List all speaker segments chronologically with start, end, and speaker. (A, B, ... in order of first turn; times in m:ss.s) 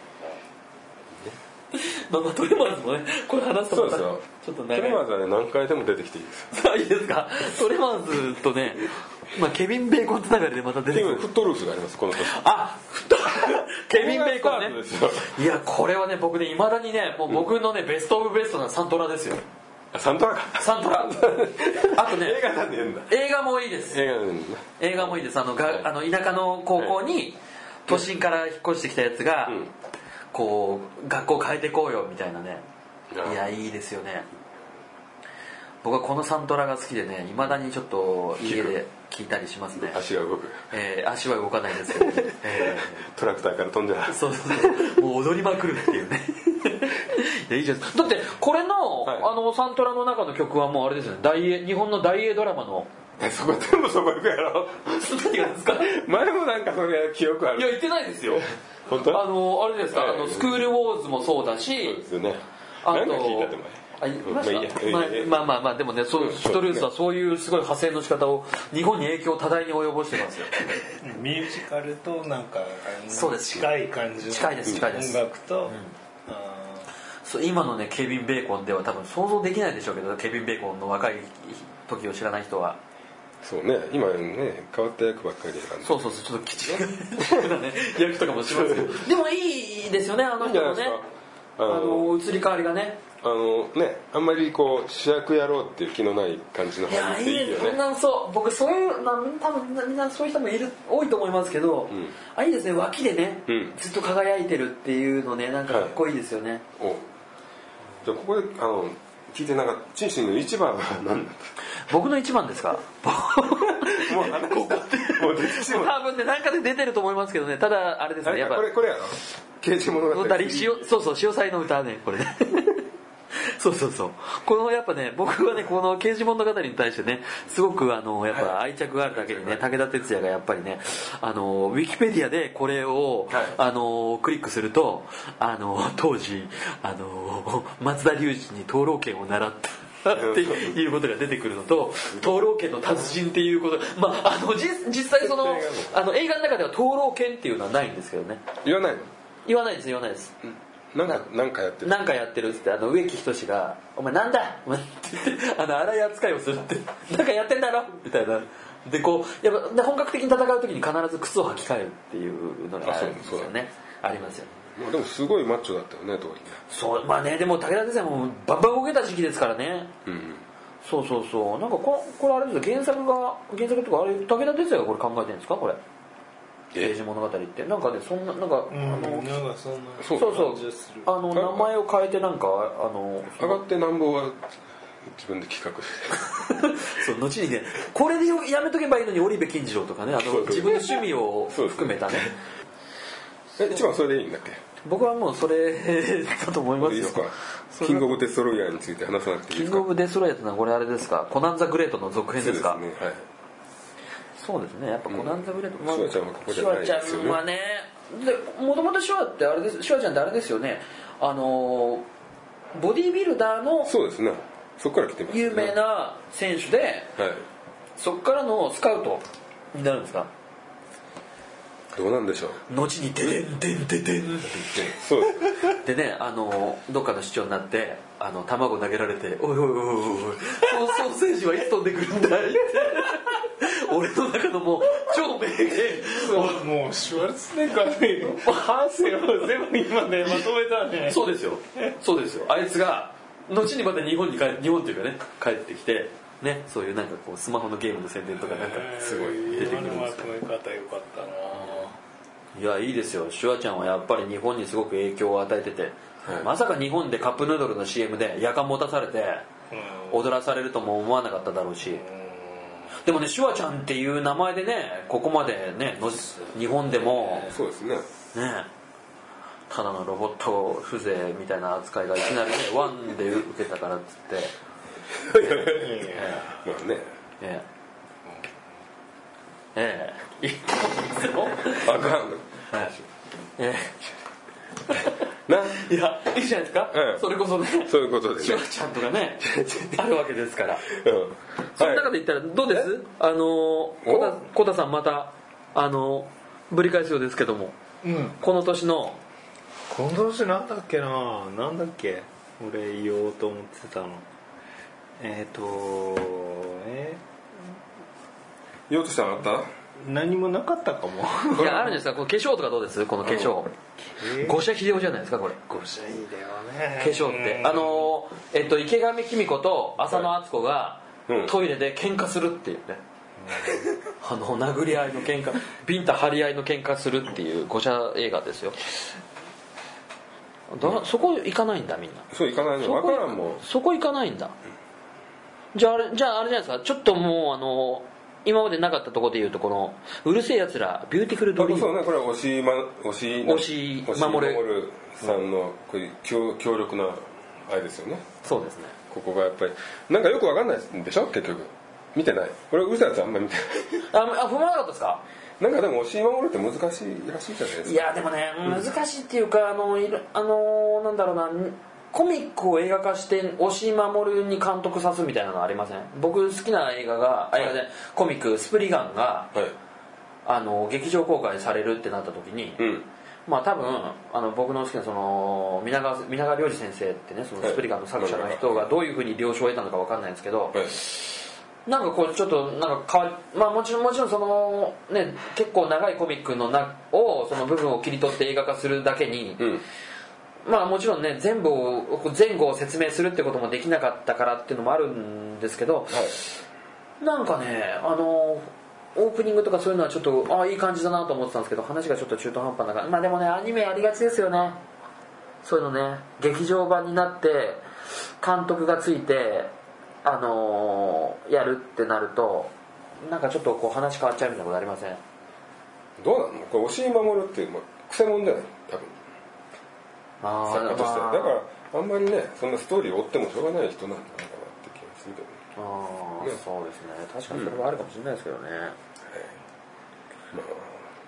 0:01.7-0:05.0 A
0:03.7-0:06.5 B
0:06.5-0:11.3 A
0:10.9-0:12.4 B
0:12.2-0:19.4 A
0:13.5-0:15.4 B
0:19.9-0:23.1 B
0:20.6-0:22.4 A
0:23.1-0:24.0 A
0:23.9-0:25.8 B
0:24.8-0:29.6 A
0:29.5-0:29.7 B
0:30.3-0:32.6 A
0:33.1-0:33.4 B
0:33.2-0:34.3 A
0:35.8-0:40.0 A
0:38.4-0:38.7 B
0:39.8-0:40.6 B
0:40.7-0:43.0 A
0:41.9-0:45.0 B
0:44.1-0:52.9 A
0:49.0-0:49.3 B
0:53.2-0:59.2 B
0:54.9-0:56.0 A
0:57.5-0:58.4 A
0:58.9-1:02.0 A
0:59.9-1:00.6 B
1:01.8-1:05.4 B
1:02.8-1:10.7 A
1:06.1-1:06.9 B
1:11.0-1:16.9 C
1:13.1-1:13.7 A
1:14.3-1:15.9 A
1:17.2-1:22.8 A
1:23.4-1:26.1 B
1:25.8-1:31.0 A
1:26.6-1:27.5 B
1:28.3-1:29.1 B
1:30.4-1:31.0 B
1:31.6-1:32.1 B
1:31.7-1:33.0 A
1:33.2-1:37.8 B
1:36.9-1:46.6 A
1:43.5-1:43.7 B
1:45.7-1:46.0 B
1:46.8-1:47.0 B
1:48.0-1:51.5 B
1:51.8-1:58.6 A
1:53.8-1:55.9 B
1:58.2-2:00.9 B
2:00.1-2:02.8 A
2:03.4-2:28.4 A
2:08.3-2:09.7 B
2:13.3-2:13.6 B
2:20.1-2:20.8 B
2:25.2-2:25.9 B
2:28.6-2:29.1 B
2:29.4-2:30.3 A
2:30.9-2:31.9 B
2:31.8-2:44.5 A
2:42.8-2:43.5 B
2:44.7-2:46.6 B
2:46.7-2:49.9 A
2:50.0-2:50.4 B
2:50.8-2:55.8 A
2:56.8-2:59.4 A
2:58.7-3:01.1 C
3:00.0-3:00.6 B
3:00.1-3:03.6 A
3:01.3-3:01.7 B
3:03.4-3:04.4 B
3:05.0-3:06.7 B
3:06.4-3:12.3 A
3:10.2-3:12.3 B
3:13.6-3:14.6 B
3:14.8-3:18.1 A
3:16.8-3:19.9 B
3:19.5-3:22.8 A
3:22.4-3:23.2 B
3:24.4-3:32.0 A
3:25.1-3:27.4 B
3:32.7-3:33.9 A
3:33.8-3:35.8 B
3:35.3-3:37.1 A
3:37.2-3:37.4 B
3:38.0-3:39.2 A
3:39.7-3:40.3 A
3:41.9-3:42.6 B
3:42.7-3:45.0 A
3:44.8-3:45.7 B
3:45.6-3:56.6 A
3:56.0-4:01.2 C
3:58.4-3:59.7 A
4:00.2-4:10.3 A
4:08.5-4:12.0 C
4:08.9-4:10.0 B
4:12.5-4:19.4 A
4:19.7-4:20.2 C
4:20.1-4:22.0 A
4:21.8-4:22.9 C
4:23.0-4:27.5 A
4:27.4-4:28.0 B
4:28.3-4:28.7 A
4:29.7-4:34.5 A
4:35.2-4:37.1 B
4:35.6-4:36.5 C
4:36.1-4:36.5 A
4:39.7-4:41.9 A
4:41.7-4:43.0 B
4:42.7-4:42.9 A
4:43.6-4:44.0 A
4:44.9-4:45.2 A
4:45.5-4:45.8 B
4:45.7-4:50.8 A
4:46.9-4:47.2 B
4:47.8-4:48.6 B
4:49.4-4:50.0 B
4:50.8-4:52.1 B
4:51.7-4:57.8 A
4:54.0-4:54.4 B
4:58.0-4:58.4 C
4:58.4-4:59.2 A
4:59.9-5:04.2 C
5:05.2-5:07.7 C
5:08.9-5:09.7 B
5:10.0-5:12.0 C
5:11.5-5:13.7 A
5:11.6-5:11.8 B
5:13.2-5:13.5 B
5:14.0-5:14.6 C
5:14.2-5:15.6 A
5:15.7-5:18.1 C
5:17.0-5:23.0 A
5:21.3-5:21.5 B
5:23.4-5:23.8 C
5:24.0-5:28.8 A
5:30.7-5:32.3 A
5:32.3-5:33.6 B
5:32.8-5:34.5 A
5:35.7-5:41.9 A
5:41.6-5:48.2 B
5:43.4-5:44.6 A
5:48.4-5:49.0 A
5:49.1-5:54.0 B
5:54.1-5:55.2 A
5:55.6-5:58.0 B
5:57.8-6:09.5 A
6:10.4-6:12.8 A
6:12.8-6:13.0 B
6:13.4-6:29.6 A
6:17.6-6:18.9 B
6:29.6-6:29.8 B
6:30.6-6:36.4 A
6:36.1-6:36.4 B
6:37.2-6:44.8 A
6:45.6-6:47.8 A
6:48.4-6:49.7 A
6:50.2-6:55.2 A
6:56.2-6:59.2 B
7:00.4-7:01.6 A
7:00.7-7:05.6 B
7:05.8-7:09.0 A
7:07.5-7:07.8 B
7:10.5-7:11.0 B